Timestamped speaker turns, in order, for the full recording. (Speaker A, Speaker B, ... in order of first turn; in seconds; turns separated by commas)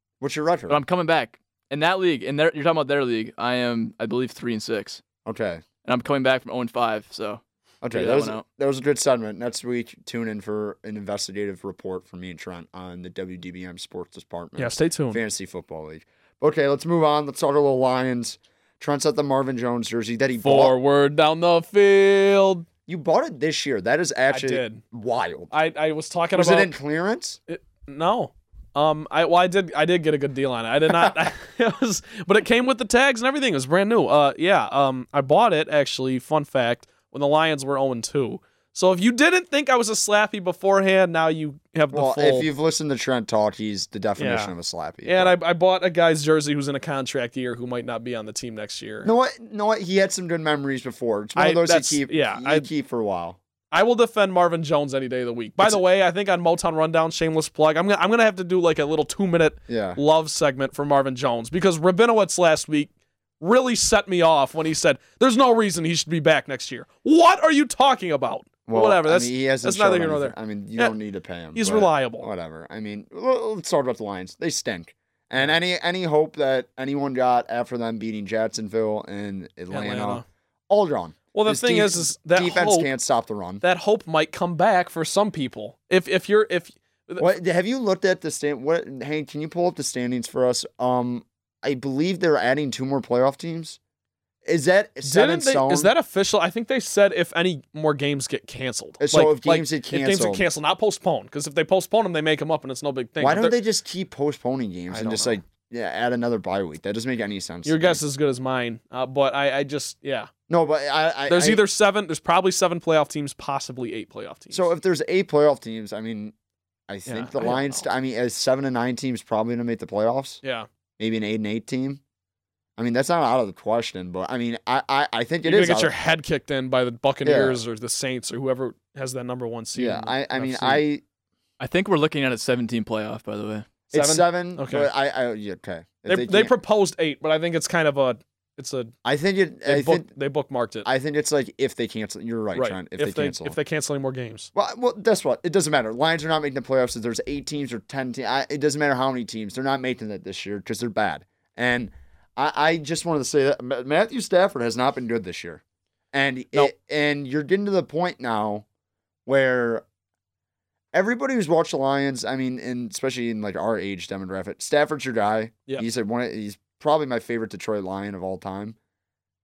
Speaker A: 0.2-0.8, Speaker B: 0.7-5.0, Speaker A: 5.2-5.6, Speaker B: 5.8-8.4, Speaker A: 7.8-20.7, Speaker C: 14.6-15.2, Speaker C: 20.4-22.6, Speaker A: 22.9-25.5, Speaker C: 24.3-24.8, Speaker C: 25.5-26.7, Speaker A: 26.3-27.4, Speaker C: 27.5-42.5, Speaker A: 41.9-45.3, Speaker C: 44.2-44.5, Speaker C: 45.0-49.1, Speaker A: 49.0-53.4, Speaker C: 51.4-52.7, Speaker C: 53.7-70.9, Speaker A: 59.7-60.0, Speaker A: 68.7-83.6, Speaker C: 71.5-72.3, Speaker C: 79.7-80.2, Speaker C: 81.3-82.9, Speaker C: 83.6-87.2, Speaker A: 87.2-93.8, Speaker A: 94.4-95.9, Speaker C: 95.0-103.6, Speaker A: 99.0-100.4, Speaker A: 103.2-108.0, Speaker C: 104.9-105.4, Speaker C: 107.6-110.3, Speaker A: 110.5-111.6, Speaker C: 111.3-114.7, Speaker A: 114.5-116.3, Speaker A: 116.9-120.4, Speaker C: 117.1-117.8, Speaker A: 121.0-122.0, Speaker A: 122.8-125.9, Speaker C: 125.4-130.8, Speaker A: 127.2-127.6, Speaker A: 129.8-131.0, Speaker B: 131.6-133.7, Speaker A: 133.9-136.5, Speaker C: 133.9-134.9, Speaker C: 136.1-138.9, Speaker A: 139.0-140.1, Speaker C: 139.7-140.9, Speaker A: 140.8-143.6, Speaker C: 142.5-144.5, Speaker A: 144.5-155.6, Speaker A: 156.1-158.6, Speaker A: 159.2-159.8, Speaker A: 160.9-168.8